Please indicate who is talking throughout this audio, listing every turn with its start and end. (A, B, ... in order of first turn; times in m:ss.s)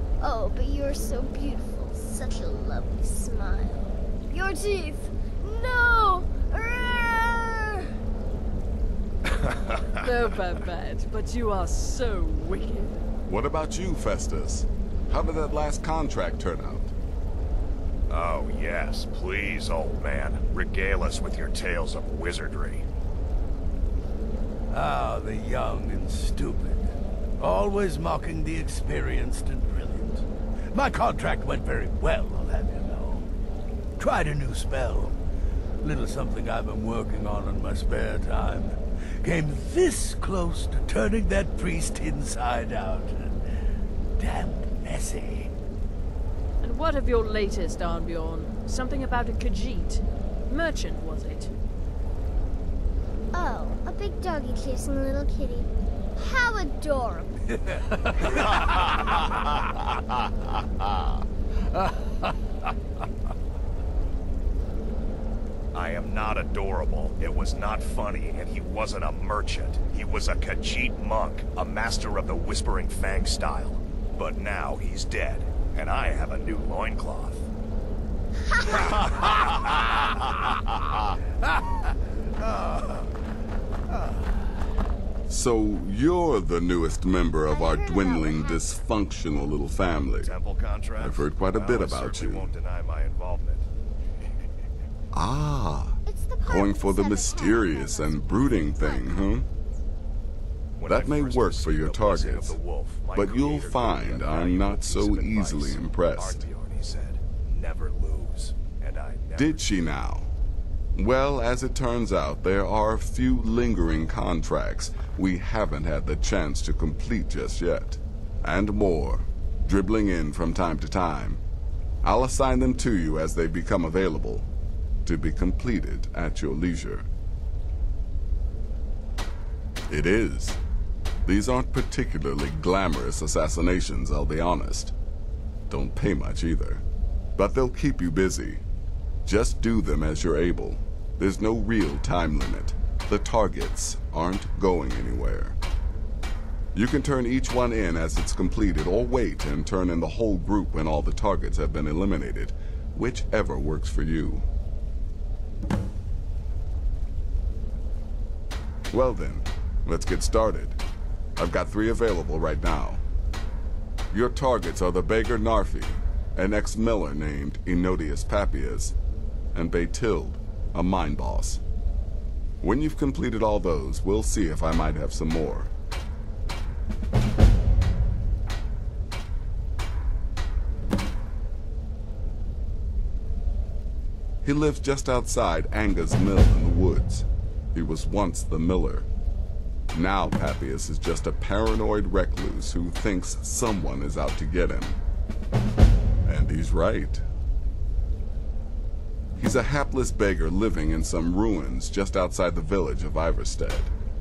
0:00.2-0:07.9 A
0:09.3-0:09.9 B
0:10.0-0:13.0 C
0:13.3-0:16.9 D
0:18.1-0:22.8 B
0:24.7-0:33.3 E
0:34.0-0:35.2 E
0:35.8-0:43.4 E
0:44.2-0:45.5 E
0:46.6-0:51.5 C
0:53.3-0:57.6 A
0:57.5-0:57.8 E
0:58.5-0:59.4 B
1:00.0-1:00.3 B
1:05.7-1:17.5 B
1:18.6-1:21.0 B
1:21.5-1:22.8 E
1:23.9-1:24.2 E
1:25.3-1:30.3 D
1:27.5-1:28.8 A
1:30.2-1:33.7 B
1:31.0-1:32.6 D
1:35.1-1:39.5 D
1:36.1-1:39.2 A
1:40.8-1:49.7 B
1:40.8-1:46.4 D
1:49.4-1:50.3 D
1:50.9-2:01.4 D
2:02.0-2:04.5 D
2:05.0-2:07.0 D
2:09.9-2:10.6 D
2:11.2-2:14.9 D
2:15.7-2:16.8 D
2:17.4-2:18.6 D
2:19.2-2:25.6 D
2:26.7-2:34.4 D
2:38.9-2:40.8 D
2:41.4-2:43.0 D
2:44.1-2:48.9 D
2:49.5-2:51.6 D
2:52.6-2:55.7 D
3:04.4-3:09.1 D
3:09.9-3:15.0 D
3:16.2-3:17.2 D
3:19.4-3:23.9 D